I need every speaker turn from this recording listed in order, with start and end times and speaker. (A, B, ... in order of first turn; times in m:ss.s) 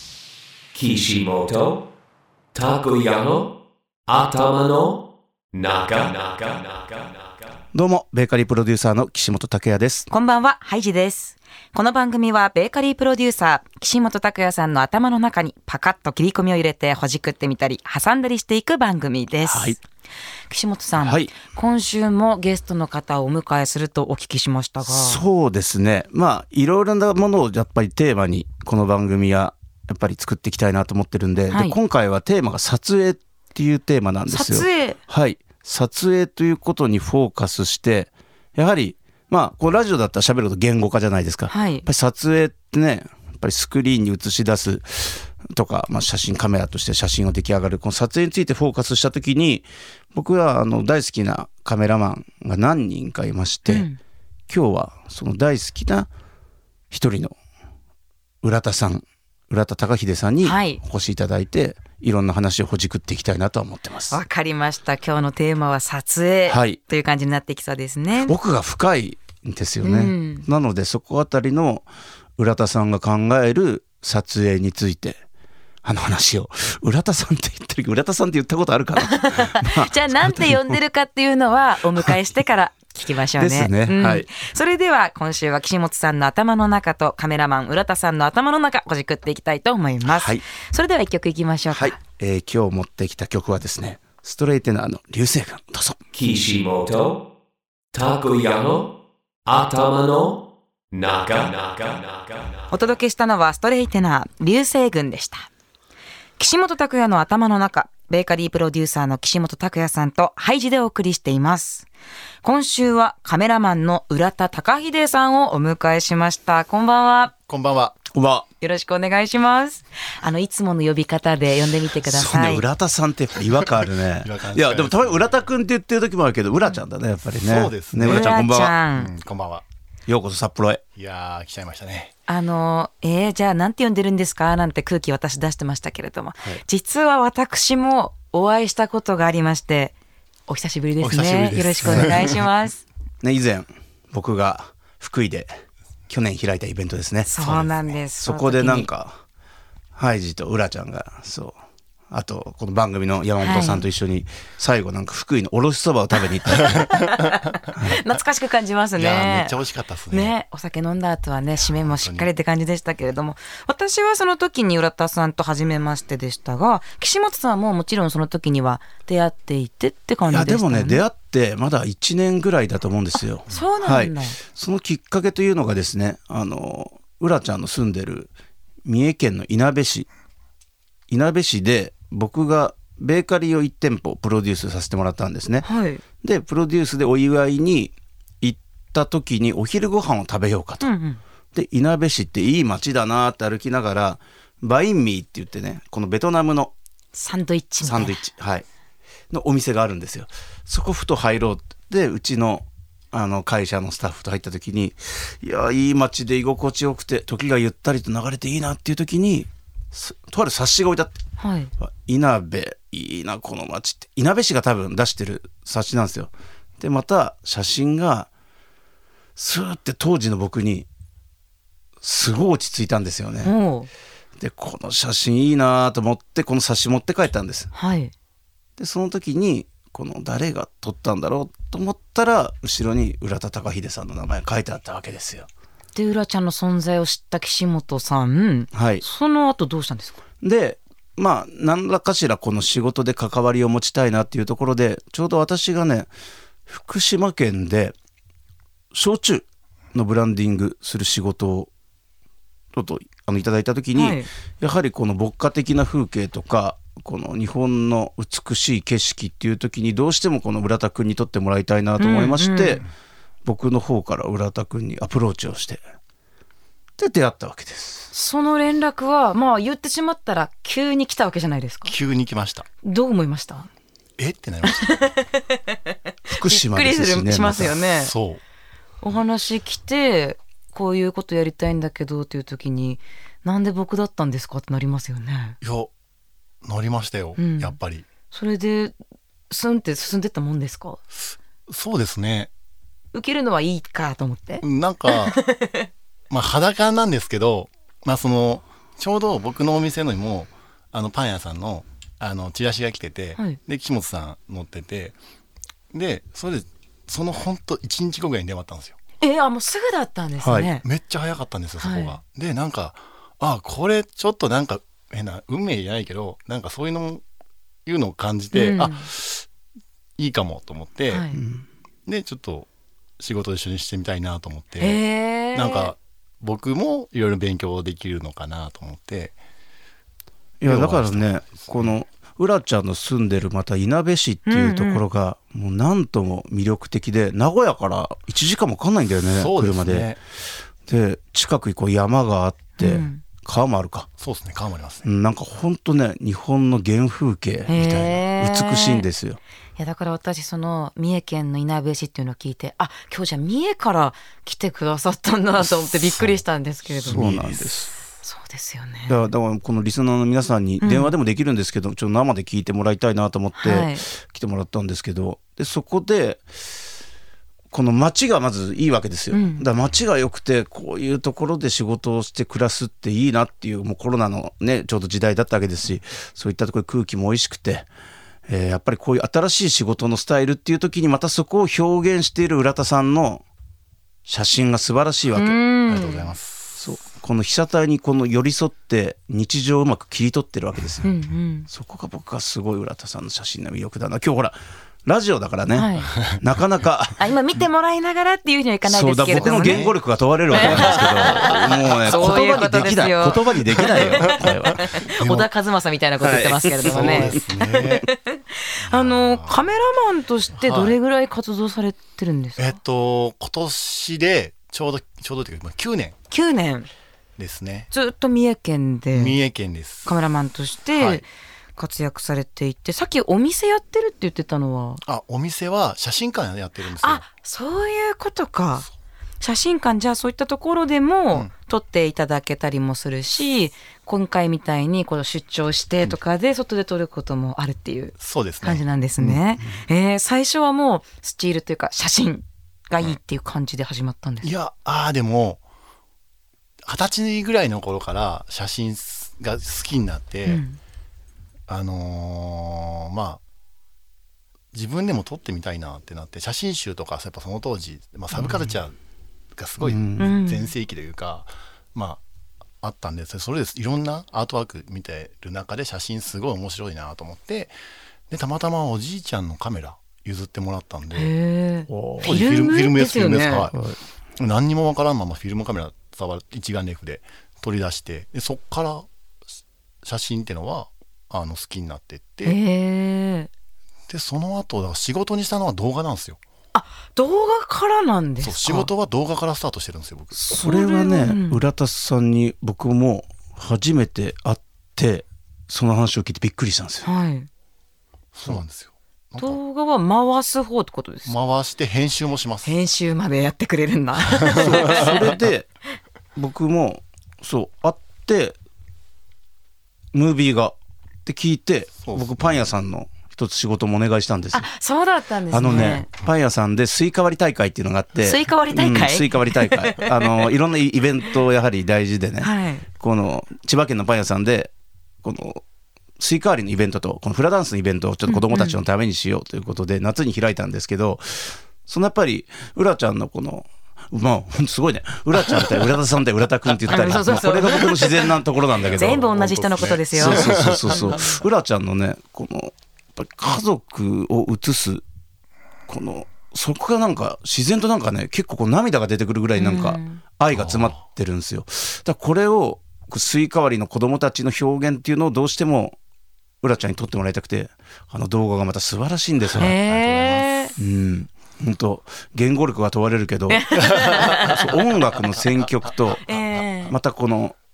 0:00.7-0:01.8 A
0:02.5-0:03.5 A
0:04.1-0:05.0 A
0:05.5-0:07.5 A
0:07.7-0:10.1 B
0:10.1-0:19.8 C
0:19.4-0:19.8 B
0:20.5-0:25.2 C
0:21.0-0:21.3 B
0:24.8-0:53.9 B
0:31.5-0:31.8 C
0:34.3-0:35.0 C
0:41.5-0:41.9 C
0:53.7-0:54.0 C
0:54.5-0:56.1 B
0:56.9-0:57.4 B
0:58.4-1:04.2 B
1:00.4-1:00.8 C
1:04.1-1:08.3 C
1:06.5-1:06.8 B
1:08.2-1:11.8 B
1:09.8-1:10.5 C
1:12.4-1:15.2 B
1:15.8-1:20.8 B
1:19.0-1:32.0 C
1:23.4-1:24.3 B
1:30.0-1:30.4 B
1:31.7-1:36.1 B
1:36.1-1:37.2 A
1:37.9-1:38.9 A
1:39.4-1:42.7 A
1:42.7-1:45.5 C
1:46.4-1:51.9 C
1:52.4-1:57.3 C
1:57.5-1:57.9 D
1:58.1-1:58.5 B
1:58.6-2:02.6 C
2:02.0-2:08.7 B
2:04.2-2:05.4 D
2:07.3-2:09.6 D
2:08.0-2:09.1 C
2:10.1-2:10.8 B
2:10.9-2:12.1 D
2:12.3-2:19.9 C
2:20.5-2:22.8 C
2:21.0-2:22.3 D
2:21.4-2:22.1 B
2:23.2-2:25.6 B
2:26.1-2:27.4 B
2:27.2-2:28.9 C
2:27.4-2:27.9 D
2:28.2-2:29.2 B
2:29.9-2:31.6 B
2:32.1-2:36.8 B
2:33.4-2:33.8 C
2:36.5-2:39.6 C
2:39.0-2:40.3 D
2:40.1-2:51.0 C
2:41.5-2:42.3 D
2:50.3-2:58.3 B
2:53.4-2:54.4 C
2:58.8-3:00.1 B
3:01.1-3:05.6 B
3:05.6-3:06.0 C
3:06.2-3:10.9 B
3:10.8-3:11.2 C
3:11.5-3:16.7 B
3:17.1-3:18.2 C
3:17.8-3:18.6 B
3:19.3-3:31.2 B
3:31.4-3:31.7 C
3:31.8-3:38.3 B
3:39.4-3:40.9 B
3:42.0-3:43.5 B
3:43.4-3:43.9 C
3:44.4-3:47.7 B
3:47.7-3:48.1 C
3:48.8-3:55.5 B
3:55.9-4:00.2 C
3:58.7-3:59.0 B
4:00.4-4:06.1 B
4:06.7-4:07.9 B
4:08.9-4:11.7 B
4:12.7-4:22.8 B
4:13.9-4:14.3 C
4:22.0-4:22.8 C
4:23.4-4:25.8 B
4:27.0-4:28.1 B
4:28.1-4:31.9 C
4:31.8-4:32.6 D
4:32.8-4:33.7 C
4:34.2-4:35.2 D
4:34.6-4:38.1 C
4:36.3-4:37.7 B
4:37.5-4:38.4 D
4:39.0-4:45.6 C
4:45.6-4:45.9 D
4:46.6-4:48.0 D
4:47.4-4:47.8 C
4:48.3-4:49.0 C
4:49.5-4:51.0 C
4:51.1-4:52.5 D
4:53.1-4:55.9 C
4:54.6-4:55.4 D
4:56.3-5:05.2 D
5:05.9-5:09.0 D
5:09.2-5:10.8 C
5:10.4-5:10.7 B
5:10.8-5:17.2 D
5:11.8-5:12.2 C
5:17.8-5:19.4 D
5:18.5-5:19.1 C
5:20.2-5:21.3 D
5:21.1-5:21.4 C
5:21.3-5:21.6 B
5:22.0-5:25.0 D
5:24.8-5:25.9 C
5:25.5-5:29.4 D
5:30.6-5:40.2 B
5:30.6-5:32.0 D
5:34.4-5:35.0 C
5:39.3-5:40.2 D
5:40.9-5:44.1 B
5:42.8-5:43.2 C
5:44.2-5:45.0 D
5:45.0-5:49.4 B
5:47.7-5:49.0 C
5:49.8-5:57.2 C
5:55.6-5:57.9 D
5:57.0-5:57.9 B
5:58.2-5:59.2 C
5:59.1-6:06.4 B
6:00.8-6:01.1 C
6:03.6-6:04.0 C
6:07.7-6:17.9 B
6:09.3-6:09.6 C
6:18.5-6:23.4 B
6:24.2-6:25.6 B
6:25.3-6:26.3 C
6:25.8-6:26.8 D
6:26.8-6:31.1 B
6:31.0-6:31.7 C
6:31.7-6:37.2 B
6:35.7-6:36.1 C
6:37.2-6:39.9 C
6:38.8-6:44.8 B
6:39.3-6:40.0 D
6:40.5-6:45.5 D
6:40.5-6:52.8 C
6:46.2-6:47.4 B
6:46.8-6:48.1 D
6:48.8-6:49.8 D
6:50.5-6:51.0 D
6:52.6-6:56.2 D
6:56.3-6:56.9 C
6:57.4-6:57.9 D
6:57.9-6:59.4 C
6:59.1-7:00.2 D
7:00.0-7:05.0 C
7:00.9-7:01.2 D
7:05.0-7:07.2 D
7:07.0-7:08.9 C
7:09.4-7:24.5 C
7:18.2-7:19.4 D
7:24.4-7:25.6 D
7:26.8-7:30.6 D
7:30.4-7:30.8 C
7:31.7-7:33.4 D
7:34.7-7:39.0 D
7:38.4-7:38.6 B
7:39.5-7:42.2 D
7:39.8-7:40.3 B
7:40.2-7:40.7 C
7:42.8-7:47.7 D
7:48.3-7:51.3 D
7:51.1-7:53.7 C
7:51.9-7:52.4 B
7:52.2-7:53.8 D
7:53.7-7:54.0 B
7:54.4-7:59.1 D
8:00.0-8:02.6 D
8:02.4-8:03.5 C
8:04.1-8:06.4 D
8:06.7-8:08.9 C
8:08.4-8:10.4 D
8:10.3-8:17.1 B
8:10.5-8:11.6 C
8:17.0-8:17.5 C
8:18.3-8:19.6 D
8:19.4-8:21.4 C
8:21.2-8:22.8 D
8:22.6-8:25.2 C
8:24.4-8:25.0 D
8:24.6-8:25.7 B
8:26.4-8:28.6 B
8:30.1-8:30.7 B
8:31.2-8:34.7 B
8:32.0-8:32.7 D
8:34.5-8:36.1 C
8:35.5-8:44.7 B
8:38.2-8:40.4 C
8:42.4-8:42.9 C
8:45.2-8:45.6 B
8:46.2-8:59.2 B
8:48.2-8:48.8 C
8:56.9-8:58.3 C
8:58.8-9:01.4 D
8:58.9-9:01.4 C
9:00.1-9:05.0 B
9:05.9-9:16.0 B
9:09.6-9:10.2 C
9:10.5-9:11.0 D
9:16.6-9:19.7 B
9:19.5-9:20.7 D
9:19.6-9:20.7 C
9:20.8-9:26.2 B
9:23.5-9:24.6 C
9:23.9-9:24.4 D
9:26.2-9:26.9 C
9:26.3-9:26.6 D
9:26.9-9:27.6 B